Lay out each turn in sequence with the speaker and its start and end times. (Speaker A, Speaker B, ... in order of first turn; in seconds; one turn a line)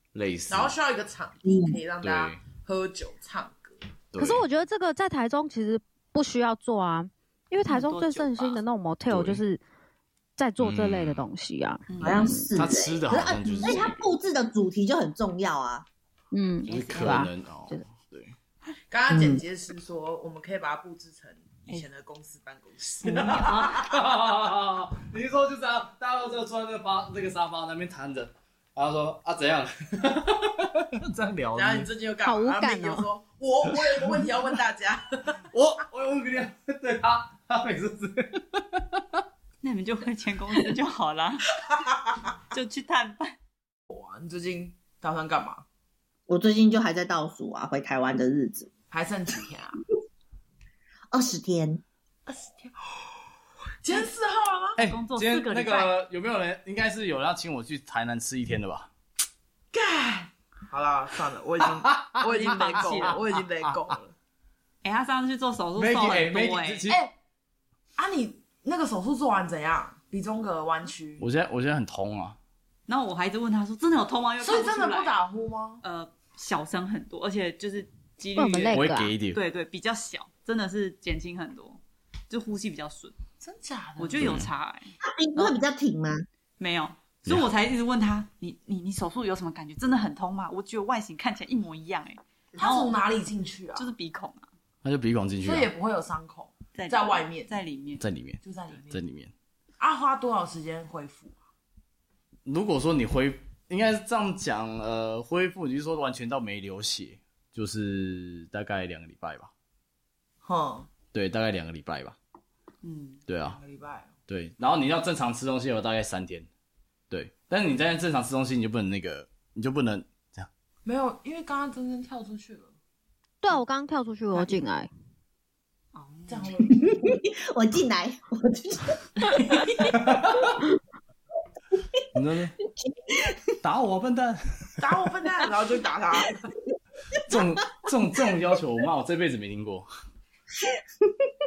Speaker A: 0.1-0.7
Speaker B: 0.5-3.8
Speaker C: 1.4-1.8
Speaker A: 2.0-2.4
Speaker A: 4.1-4.5
Speaker D: 4.2-9.6
Speaker E: 7.7-8.6
Speaker A: 9.1-9.4
Speaker D: 10.4-12.5
Speaker A: 10.6-11.3
Speaker E: 11.9-12.4
Speaker C: 12.0-15.9
Speaker A: 12.6-14.0
Speaker D: 16.3-17.8
Speaker E: 16.7-17.2
Speaker A: 16.7-18.3
Speaker B: 18.9-24.0
Speaker C: 19.1-19.4
Speaker A: 23.1-31.9
Speaker E: 23.1-23.7
Speaker B: 31.5-35.4
Speaker D: 32.2-33.1
Speaker A: 33.7-34.3
Speaker A: 35.5-39.2
Speaker E: 39.6-41.6
Speaker B: 41.7-42.2
Speaker E: 42.5-43.4
Speaker B: 43.9-45.6
Speaker C: 46.3-48.7
Speaker B: 48.9-49.8
Speaker C: 51.1-51.8
Speaker B: 52.3-53.2
Speaker B: 53.8-54.8
Speaker E: 54.8-55.9
Speaker A: 54.8-58.9
Speaker B: 59.7-64.1
Speaker A: 61.7-63.0
Speaker E: 62.3-63.2
Speaker E: 64.8-66.9
Speaker A: 65.8-67.0
Speaker B: 68.0-71.3
Speaker A: 71.2-72.4
Speaker E: 72.9-75.1
Speaker B: 74.4-75.8
Speaker E: 75.8-83.2
Speaker D: 78.4-79.1
Speaker A: 78.7-79.4
Speaker B: 83.4-84.4
Speaker E: 84.0-85.6
Speaker A: 84.2-84.5
Speaker C: 85.0-86.3
Speaker E: 86.6-93.0
Speaker B: 92.5-93.9
Speaker E: 93.8-94.5
Speaker A: 94.8-95.7
Speaker B: 95.4-97.5
Speaker E: 96.7-98.0
Speaker A: 98.0-99.3
Speaker B: 98.4-99.0
Speaker B: 99.8-101.4
Speaker A: 102.5-109.5
Speaker B: 110.4-110.9
Speaker A: 111.1-112.2
Speaker E: 112.8-113.2
Speaker A: 113.3-113.6
Speaker B: 113.4-114.1
Speaker A: 114.3-116.5
Speaker A: 117.1-120.5
Speaker B: 120.8-122.7
Speaker D: 123.4-124.9
Speaker E: 125.9-126.5
Speaker B: 126.3-126.8
Speaker C: 126.7-129.9
Speaker B: 129.3-129.9
Speaker A: 129.9-130.5
Speaker A: 132.1-132.6
Speaker C: 132.8-133.4
Speaker A: 133.6-134.8
Speaker B: 134.8-136.5
Speaker A: 137.3-139.9